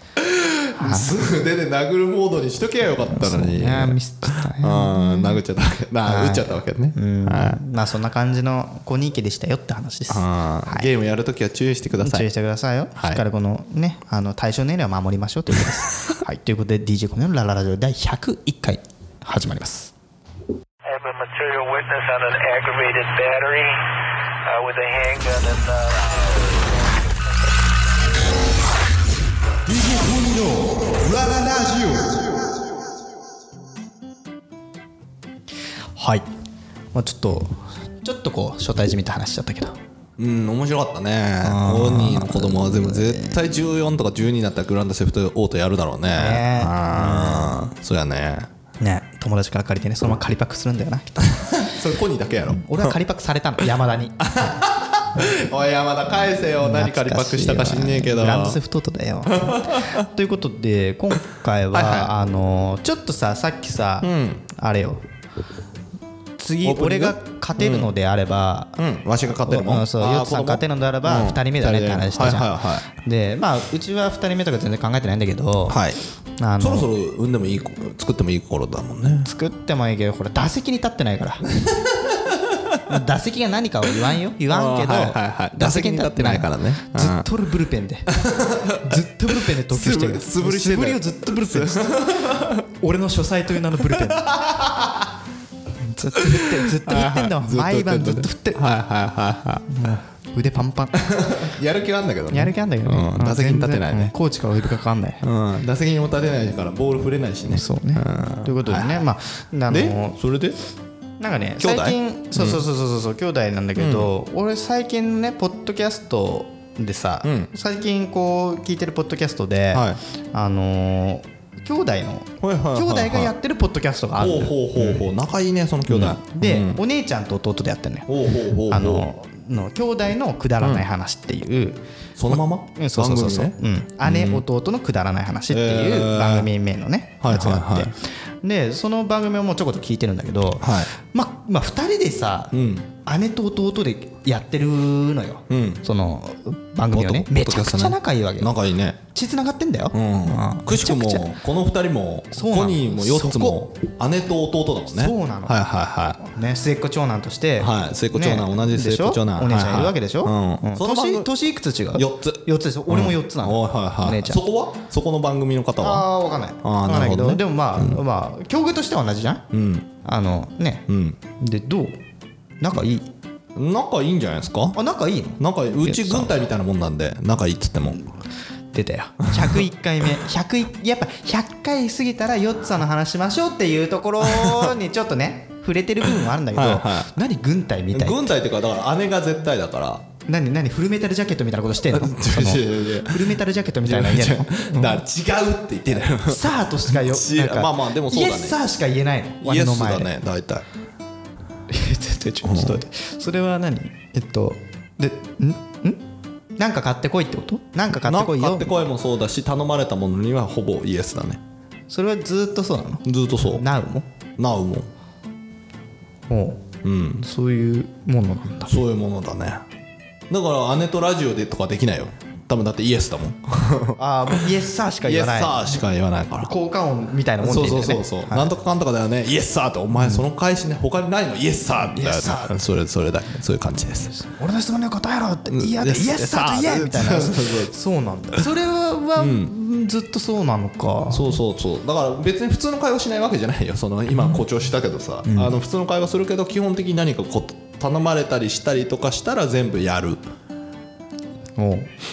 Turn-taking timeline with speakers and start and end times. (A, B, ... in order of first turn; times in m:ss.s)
0:00.2-0:07.6 A
0:00.8-0:01.2 B
0:03.1-0:05.4 B
0:06.0-0:10.9 B
0:10.1-0:12.3 A
0:12.0-0:19.9 B
0:13.0-0:13.2 A
0:20.8-0:23.9 C
0:24.4-0:27.2 C
0:29.7-0:32.4 B
0:36.0-0:36.3 B
0:36.9-0:39.8 B
0:40.2-0:48.5 A
0:41.4-0:43.4 B
0:46.2-0:47.7 B
0:48.8-0:51.7 B
0:51.4-0:53.0 A
0:52.5-0:54.5 B
0:54.2-0:58.6 A
0:56.6-1:05.0 B
0:59.3-1:00.0 A
1:01.7-1:02.1 A
1:04.0-1:04.4 A
1:06.4-1:08.8 B
1:06.6-1:07.9 A
1:08.8-1:12.8 A
1:09.3-1:15.8 B
1:15.7-1:16.0 A
1:16.4-1:16.9 B
1:16.6-1:19.3 A
1:19.2-1:21.5 B
1:21.6-1:22.8 A
1:22.9-1:28.1 B
1:24.5-1:27.3 A
1:28.1-1:32.7 A
1:28.8-1:32.1 B
1:32.8-1:34.4 B
1:33.8-1:35.1 A
1:35.9-1:38.6 B
1:36.2-1:39.7 A
1:39.7-1:41.0 B
1:41.0-1:44.1 A
1:42.3-1:45.2 B
1:45.2-1:49.1 A
1:47.5-1:50.2 B
1:49.7-1:50.6 A
1:51.2-2:05.1 B
1:51.6-1:52.6 A
1:53.8-1:54.1 A
1:57.2-1:57.5 A
1:59.7-2:00.0 A
2:02.4-2:03.3 A
2:04.2-2:06.8 A
2:05.9-2:08.1 B
2:08.1-2:09.1 A
2:08.7-2:28.5 B
2:12.2-2:14.4 A
2:15.5-2:16.5 A
2:17.2-2:17.9 A
2:20.6-2:20.9 A
2:22.5-2:22.9 A
2:25.5-2:25.8 A
2:26.9-2:29.0 A
2:29.1-2:31.4 B
2:29.9-2:36.2 A
2:32.3-2:33.7 B
2:34.9-2:35.6 B
2:36.2-2:44.4 B
2:37.6-2:41.3 A
2:42.0-2:46.1 A
2:45.8-2:49.5 B
2:46.6-2:48.0 A
2:49.5-2:49.9 A
2:50.0-2:50.9 B
2:50.9-2:51.2 A
2:51.4-2:52.0 B
2:52.6-2:53.1 B
2:53.6-2:54.8 A
2:54.7-2:56.4 B
2:55.4-2:58.0 A
2:58.7-3:08.4 B
3:04.2-3:04.8 A
3:06.0-3:07.1 A
3:07.9-3:10.1 A
3:10.3-3:15.0 B
3:11.9-3:18.6 A
3:16.2-3:20.1 B
3:19.4-3:20.6 A
3:21.7-3:26.0 B
3:22.4-3:22.8 A
3:26.6-3:28.7 B
3:27.9-3:31.4 A
3:31.9-3:34.1 B
3:33.0-3:33.6 A
3:34.4-3:34.9 A
3:36.3-3:36.7 B
3:36.8-3:37.2 A
3:37.2-3:38.7 B
3:38.7-3:39.6 A
3:40.3-3:44.5 A
3:44.0-3:45.8 B
3:45.0-3:46.5 A
3:46.4-3:48.5 B
3:47.4-3:54.1 A
3:51.8-3:52.6 B
3:54.0-4:01.4 B
3:55.5-3:57.7 A
3:59.2-3:59.5 A
4:01.1-4:10.2 A
4:05.2-4:05.5 B
4:11.6-4:11.9 B